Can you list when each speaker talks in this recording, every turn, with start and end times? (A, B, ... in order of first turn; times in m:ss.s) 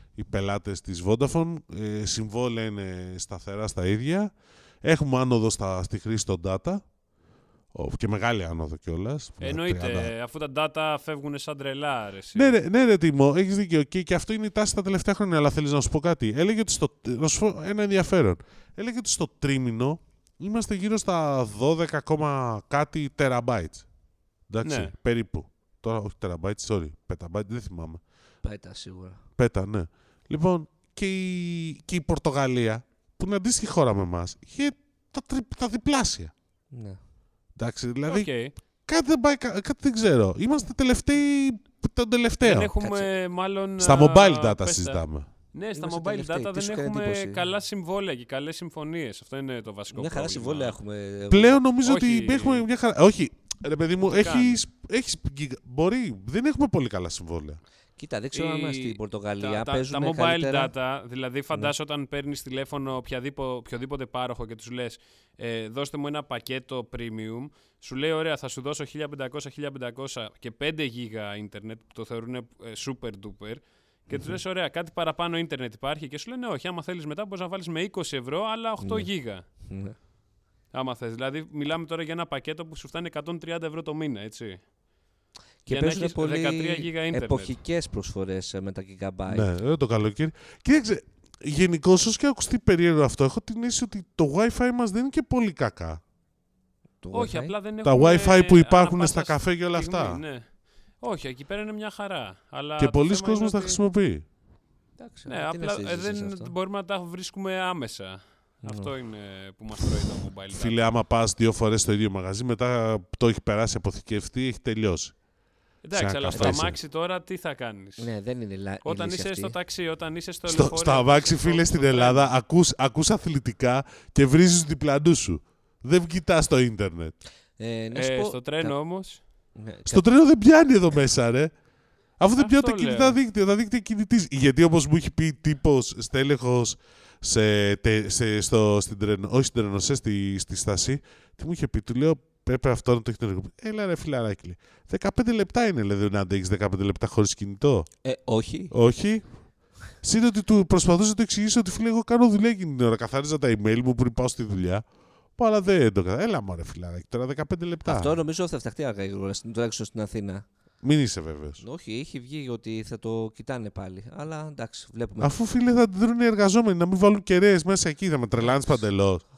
0:00.2-0:04.3 A
0:04.8-0:06.8 A
0:07.7-0:10.1 A
0:09.4-0:12.5 B
0:12.3-0:23.8 A
0:24.5-0:28.0 A
0:24.6-0:24.9 B
0:28.4-0:29.2 C
0:29.4-0:36.3 A
0:36.7-0:37.0 C
0:37.6-0:38.3 A
0:38.1-0:38.5 B
0:38.9-0:42.7 A
0:42.4-0:45.0 B
0:42.8-0:43.1 C
0:43.8-0:45.3 A
0:45.5-0:50.8 B
0:45.7-0:47.4 C
0:49.9-0:51.6 C
0:51.3-0:57.6 A
0:51.8-0:52.6 B
0:54.0-0:54.6 B
0:58.0-1:00.7 C
0:58.3-1:19.4 B
1:14.1-1:14.4 C
1:18.8-1:19.1 C
1:19.6-1:20.0 C
1:20.7-1:24.6 B
1:25.6-1:29.5 C
1:25.7-1:27.6 B
1:29.3-1:36.0 A
1:37.0-1:37.5 C
1:37.1-1:40.4 B
1:37.8-1:40.2 A
1:41.0-1:43.8 B
1:42.8-1:44.2 A
1:45.0-1:46.5 C
1:45.3-1:50.8 B
1:48.6-1:48.9 C
1:50.5-1:55.1 A
1:55.8-1:58.1 B
1:55.9-1:56.8 A
1:56.3-1:56.6 C
1:58.0-1:59.5 C
1:58.8-2:02.3 B
2:00.5-2:07.2 A
2:07.6-2:08.7 C
2:07.9-2:09.2 B
2:09.6-2:10.0 C
2:09.9-2:11.5 A
2:12.2-2:27.9 A
2:12.4-2:13.2 B
2:28.0-2:28.7 C
2:28.7-2:29.2 A
2:30.0-2:34.8 A
2:35.4-2:38.2 A
2:37.8-2:40.4 C
2:40.8-2:41.6 A
2:41.6-2:45.4 C
2:45.2-2:49.2 A
2:48.4-2:48.8 C